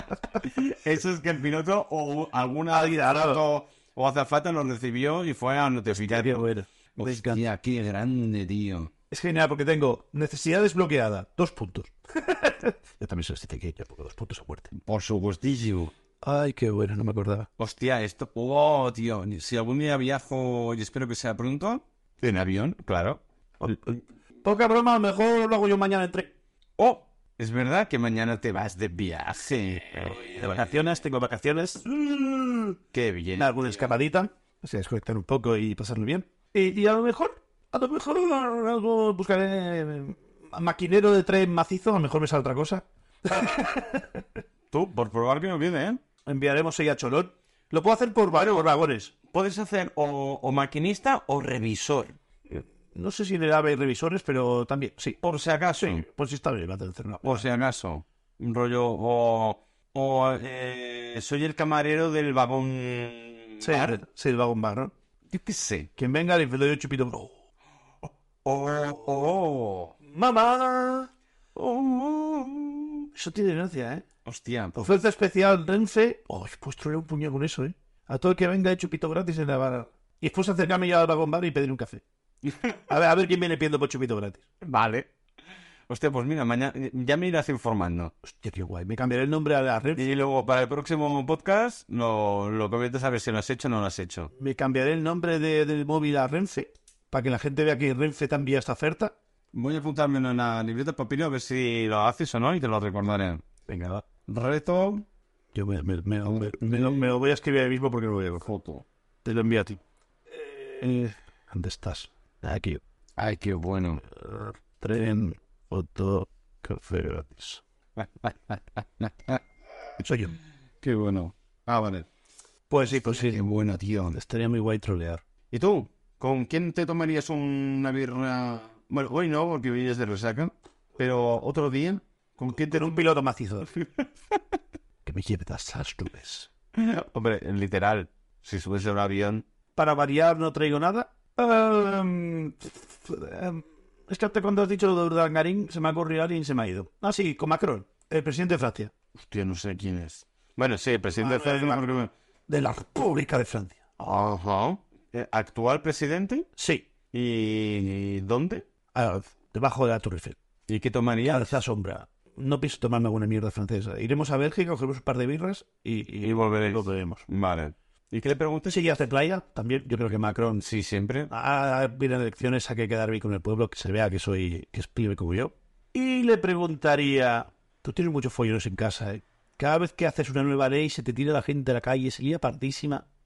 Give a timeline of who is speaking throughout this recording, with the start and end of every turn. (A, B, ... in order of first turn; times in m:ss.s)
0:00.4-0:06.4 A
0:02.7-0:03.4 B
0:06.0-0:07.4 B
0:07.0-0:08.9 A
0:09.1-0:14.7 B
0:14.8-0:15.9 A
0:16.2-0:17.5 B
0:17.6-0:23.2 A
0:23.6-0:26.3 B
0:26.8-0:30.5 A
0:30.1-0:32.8 B
0:32.9-0:33.7 A
0:33.4-0:44.2 B
0:44.7-0:46.0 A
0:46.3-0:49.1 B
0:49.3-0:52.2 A
0:52.5-0:55.2 B
0:55.2-0:56.0 A
0:55.8-0:57.4 B
0:57.2-1:04.0 A
1:03.6-1:04.9 B
1:05.3-1:05.9 A
1:06.0-1:07.3 B
1:08.4-1:09.9 A
1:10.0-1:11.1 B
1:11.6-1:13.1 A
1:13.1-1:14.1 B
1:14.2-1:14.8 A
1:14.8-1:22.0 B
1:22.4-1:22.8 A
1:22.9-1:24.4 B
1:24.6-1:25.1 A
1:25.9-1:28.1 A
1:28.2-1:30.0 B
1:29.9-1:34.3 A
1:34.4-1:39.1 B
1:39.5-1:43.4 A
1:43.6-1:44.0 B
1:44.3-1:45.0 A
1:45.5-1:48.5 B
1:46.3-1:47.1 A
1:48.4-1:48.9 A
1:49.2-1:49.8 B
1:50.3-1:52.8 B
1:53.2-1:54.0 A
1:54.1-1:57.6 B
1:58.0-1:59.4 A
2:00.0-2:00.4 B
2:00.8-2:02.1 A
2:02.7-2:03.4 B
2:03.0-2:04.2 A
2:04.1-2:05.2 B
2:05.5-2:12.9 A
2:12.5-2:13.7 B
2:13.8-2:14.0 A
2:15.0-2:16.5 B
2:16.8-2:19.4 A
2:19.8-2:28.9 B
2:29.1-2:32.1 A
2:31.2-2:31.8 B
2:32.5-2:33.8 B
2:34.0-2:36.5 A
2:36.6-2:36.9 B
2:37.1-2:38.6 A
2:38.9-2:40.4 B
2:40.7-2:41.6 A
2:41.3-2:47.2 B
2:46.2-2:48.8 A
2:48.7-2:50.6 B
2:50.6-2:51.3 A
2:51.3-3:03.1 B